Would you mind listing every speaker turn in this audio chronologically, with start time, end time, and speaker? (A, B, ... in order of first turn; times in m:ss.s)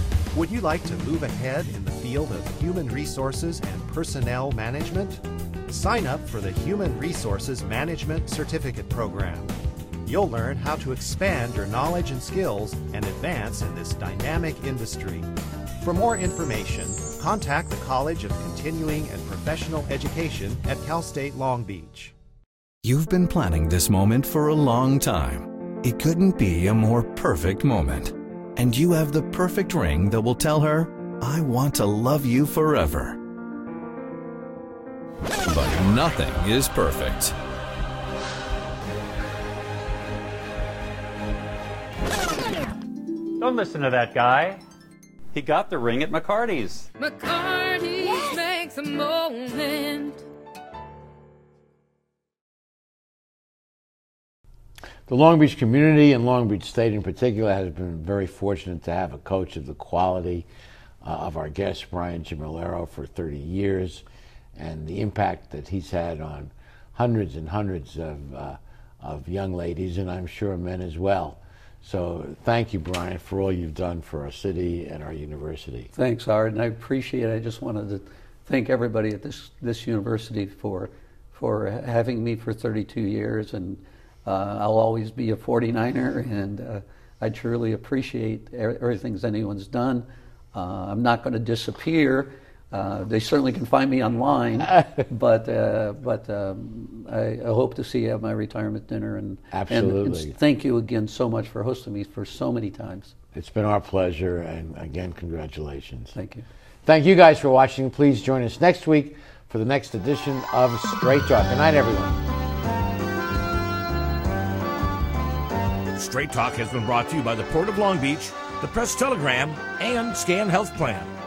0:00.3-0:09.5 A
0:10.0-0:15.3 A
0:15.8-0:22.1 A
0:22.9-0:30.5 B
0:31.3-0:31.8 B
0:32.5-0:33.2 B
0:35.5-0:37.3 B
0:43.4-0:44.6 C
0:45.3-0:46.9 C
0:47.0-0:50.2 D
0:55.1-1:00.5 E
1:01.0-1:04.0 E
1:04.6-1:15.9 E
1:15.9-1:43.1 F
1:39.5-1:40.4 E
1:43.3-1:46.1 E
1:46.2-1:46.4 F
1:46.8-1:52.2 E
1:56.0-2:01.1 G